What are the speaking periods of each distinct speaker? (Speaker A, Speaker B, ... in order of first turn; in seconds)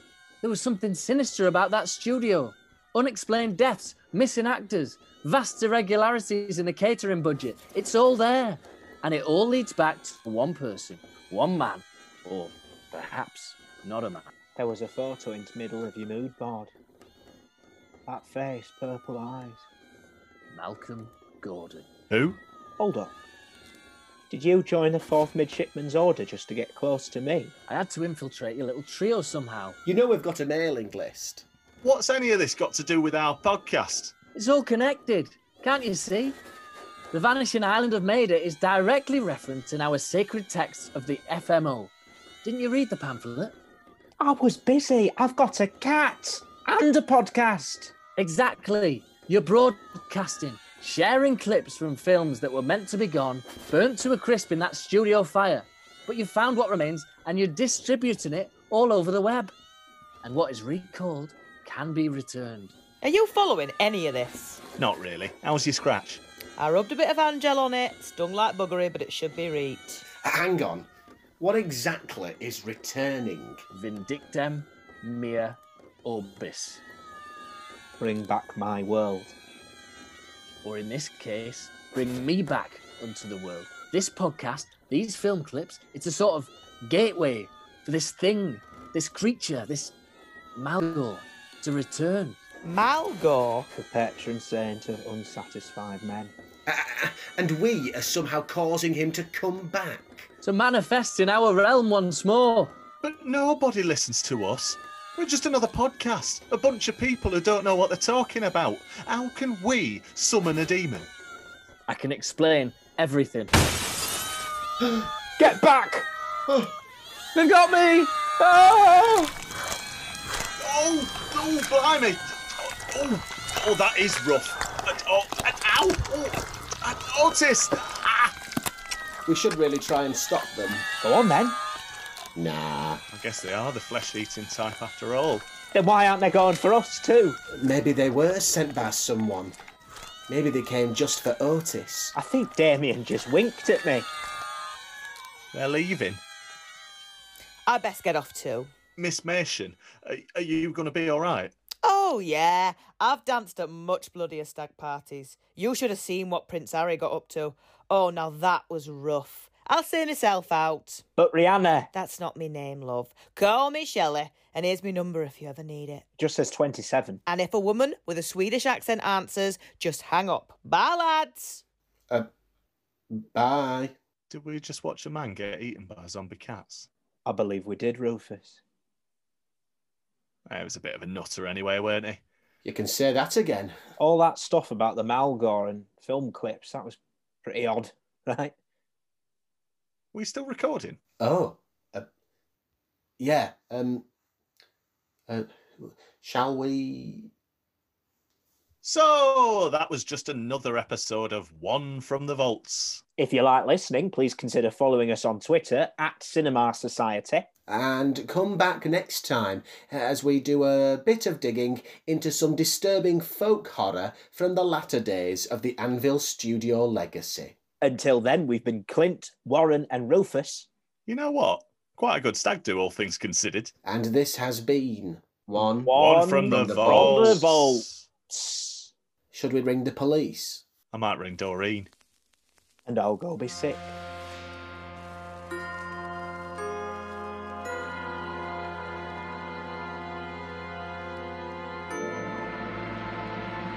Speaker A: 0.4-14.3, 20.5-21.9, 27.7-29.8, 34.4-36.4, 37.1-41.9, 42.4-43.5, 48.2-59.5, 60.2-62.7, 73.7-76.8, 80.6-89.9, 90.6-92.4, 100.4-102.8, 111.9-113.5
Speaker B: 14.6-16.7, 18.1-19.7, 22.8-23.1, 24.3-27.5, 44.2-48.0, 78.0-79.4, 93.7-96.3, 115.4-116.1, 117.4-119.3, 131.0-131.6, 135.7-137.4, 142.1-144.1, 161.2-161.9, 166.2-167.2, 177.2-178.6, 184.0-188.6, 203.2-207.5, 217.8-220.7, 225.8-228.9, 232.9-234.0
Speaker C: 22.1-22.4, 31.8-34.1, 64.8-66.2, 103.0-111.1, 120.6-128.3, 133.1-135.5, 145.5-146.2, 149.0-151.5, 174.3-176.9, 180.5-182.2, 190.1-191.0, 198.8-203.0, 221.1-223.7, 225.9-228.0, 230.9-231.9
Speaker D: 29.9-31.4, 70.2-73.7, 96.7-100.3, 116.5-116.7, 129.3-130.9, 132.4-133.0, 137.5-139.6, 140.3-142.2, 173.1-174.0, 182.6-183.8, 191.2-192.1, 193.2-194.1, 195.3-197.3, 207.7-217.6, 223.8-227.5, 229.3-230.6
Speaker E: 63.0-64.6, 66.6-70.0, 92.6-93.7, 147.7-148.7, 151.8-161.1, 161.9-166.1, 167.3-171.6